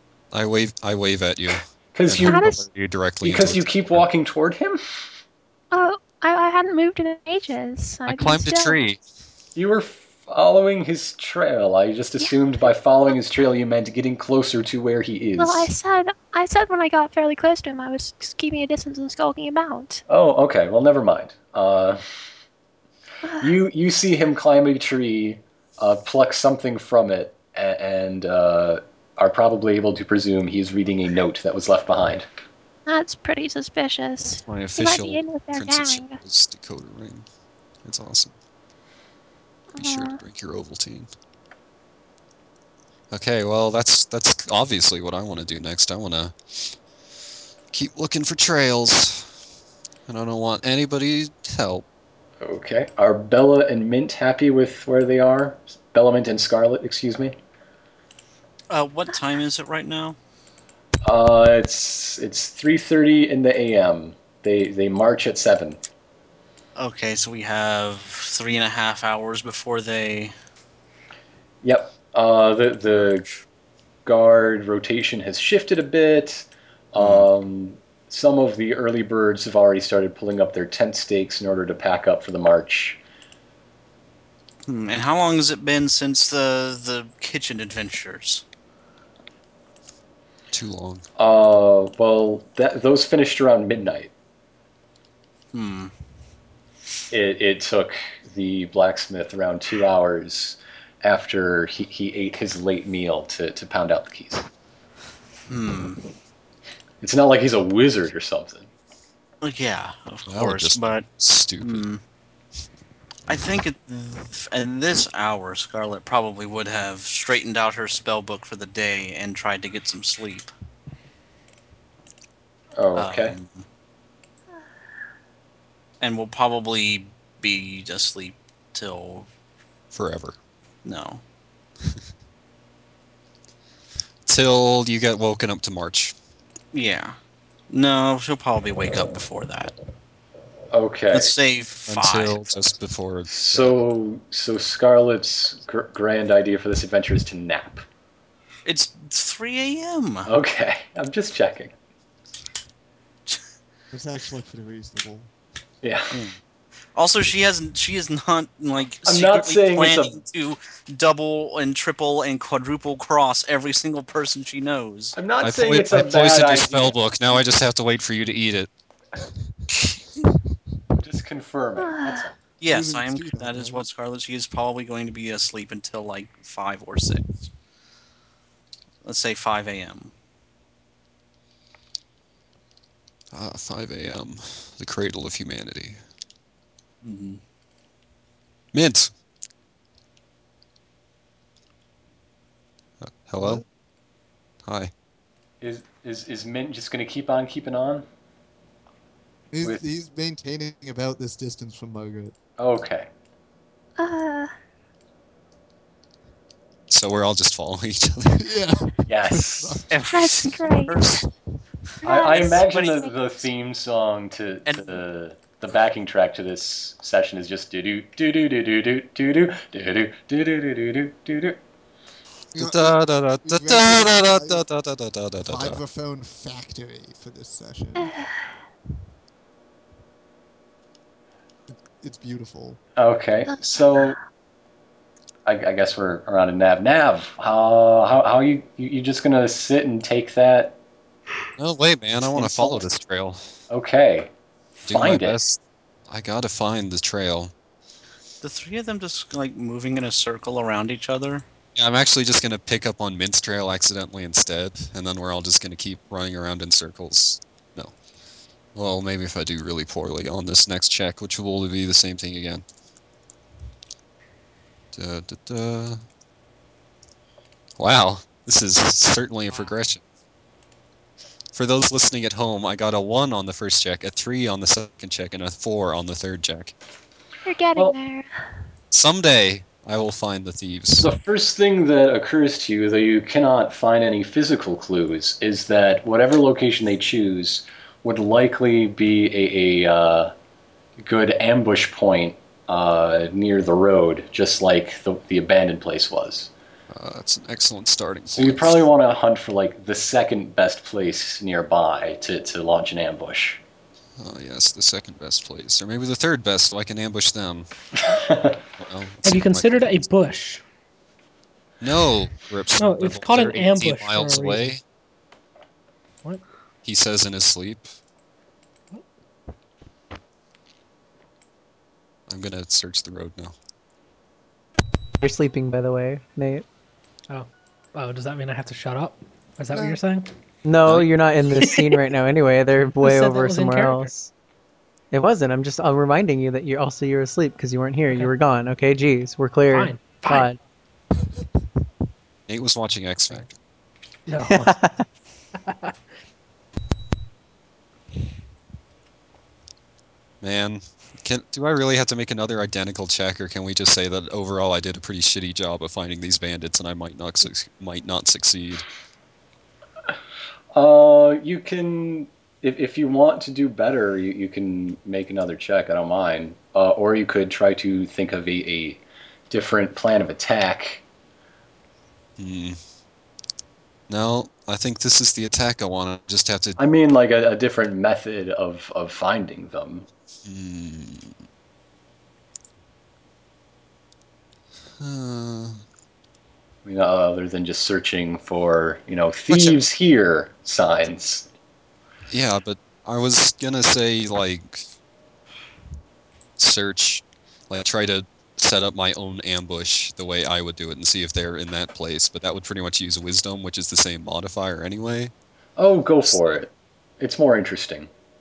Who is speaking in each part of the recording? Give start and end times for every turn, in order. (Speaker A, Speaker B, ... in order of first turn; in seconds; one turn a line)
Speaker A: 0.3-4.0
Speaker B: 1.9-2.4
Speaker C: 2.2-2.6
Speaker B: 3.2-4.8
Speaker C: 5.7-8.8
Speaker A: 8.1-9.0
Speaker B: 9.5-15.7
Speaker C: 15.4-20.0
Speaker B: 20.1-22.0
Speaker C: 23.2-23.5
Speaker B: 23.4-32.3
Speaker C: 32.9-36.2
Speaker A: 34.3-37.2
Speaker A: 37.8-38.3
Speaker C: 39.7-40.2
Speaker A: 39.8-41.1
Speaker A: 43.1-46.8
Speaker A: 47.7-49.4
Speaker A: 50.1-51.8
Speaker B: 52.4-57.4
Speaker D: 58.7-60.1
Speaker B: 61.0-65.8
Speaker D: 66.8-70.3
Speaker B: 71.6-73.3
Speaker B: 74.0-83.0
Speaker D: 77.0-77.3
Speaker D: 84.7-88.4
Speaker A: 90.5-91.0
Speaker B: 91.2-94.1
Speaker D: 95.5-95.9
Speaker B: 97.1-104.5
Speaker D: 105.5-106.0
Speaker B: 107.0-108.7
Speaker D: 109.4-112.0
Speaker A: 110.3-111.8
Speaker D: 113.3-120.5
Speaker B: 122.8-123.3
Speaker D: 122.9-123.6
Speaker D: 126.0-129.3
Speaker A: 129.9-130.3
Speaker D: 130.8-131.2
Speaker A: 134.2-136.1
Speaker D: 136.7-137.2
Speaker D: 137.7-139.7
Speaker B: 140.7-141.3
Speaker D: 141.1-142.4
Speaker A: 141.9-143.8
Speaker B: 143.3-147.8
Speaker D: 148.7-150.3
Speaker B: 150.3-151.7
Speaker E: 153.9-155.3
Speaker B: 155.8-156.1
Speaker D: 156.1-156.4
Speaker D: 156.9-165.2
Speaker B: 159.1-160.2
Speaker B: 165.2-167.4
Speaker A: 165.4-168.7
Speaker B: 171.0-172.3
Speaker C: 171.8-172.2
Speaker D: 172.6-177.2
Speaker E: 172.7-173.8
Speaker D: 179.0-180.1
Speaker A: 183.3-186.0
Speaker D: 187.0-187.4
Speaker A: 188.7-189.1
Speaker A: 193.0-193.6
Speaker A: 194.6-194.9
Speaker B: 195.6-198.0
Speaker E: 199.5-202.3
Speaker B: 202.6-203.1
Speaker C: 204.0-204.5
Speaker A: 206.9-208.4
Speaker E: 208.3-209.9
Speaker B: 209.1-209.8
Speaker D: 209.9-211.2
Speaker C: 210.1-211.0
Speaker C: 212.0-213.1
Speaker B: 212.0-221.6
Speaker D: 212.2-213.1
Speaker D: 214.7-215.0
Speaker A: 222.5-225.8
Speaker E: 222.5-224.6
Speaker E: 225.4-228.1
Speaker C: 228.0-228.5
Speaker E: 231.7-232.8
Speaker B: 233.0-234.2
Speaker C: 233.5-234.1
Speaker B: 235.4-240.8
Speaker A: 241.6-243.5
Speaker B: 242.3-242.9
Speaker B: 243.7-244.3
Speaker A: 244.9-247.5
Speaker B: 244.9-245.4
Speaker D: 248.4-251.4
Speaker A: 251.8-257.9
Speaker A: 258.7-262.6
Speaker A: 264.9-266.0
Speaker A: 267.8-270.0
Speaker A: 271.5-276.7
Speaker C: 277.4-278.5
Speaker A: 278.9-281.1
Speaker B: 281.0-290.3
Speaker B: 291.0-296.5
Speaker A: 296.9-298.8
Speaker B: 298.3-303.6
Speaker A: 304.2-307.7
Speaker B: 308.0-308.6
Speaker A: 308.8-310.0
Speaker F: 309.2-310.6
Speaker A: 311.8-314.8
Speaker F: 312.8-314.7
Speaker A: 316.8-317.9
Speaker A: 322.3-323.5
Speaker G: 325.2-326.6
Speaker F: 327.3-330.3
Speaker E: 329.7-330.0
Speaker G: 330.6-334.3
Speaker F: 331.6-332.0
Speaker F: 333.0-334.1
Speaker G: 335.1-340.6
Speaker F: 339.7-340.5
Speaker A: 342.5-343.5
Speaker F: 344.2-344.8
Speaker G: 344.5-345.0
Speaker A: 350.4-358.8
Speaker B: 360.7-371.0
Speaker A: 372.4-372.8
Speaker A: 374.1-376.8
Speaker B: 376.8-380.1
Speaker A: 380.4-381.3
Speaker A: 385.0-385.8
Speaker B: 386.8-391.5
Speaker A: 389.5-389.8
Speaker A: 392.3-394.9
Speaker A: 396.6-405.3
Speaker B: 405.8-408.1
Speaker A: 406.3-406.6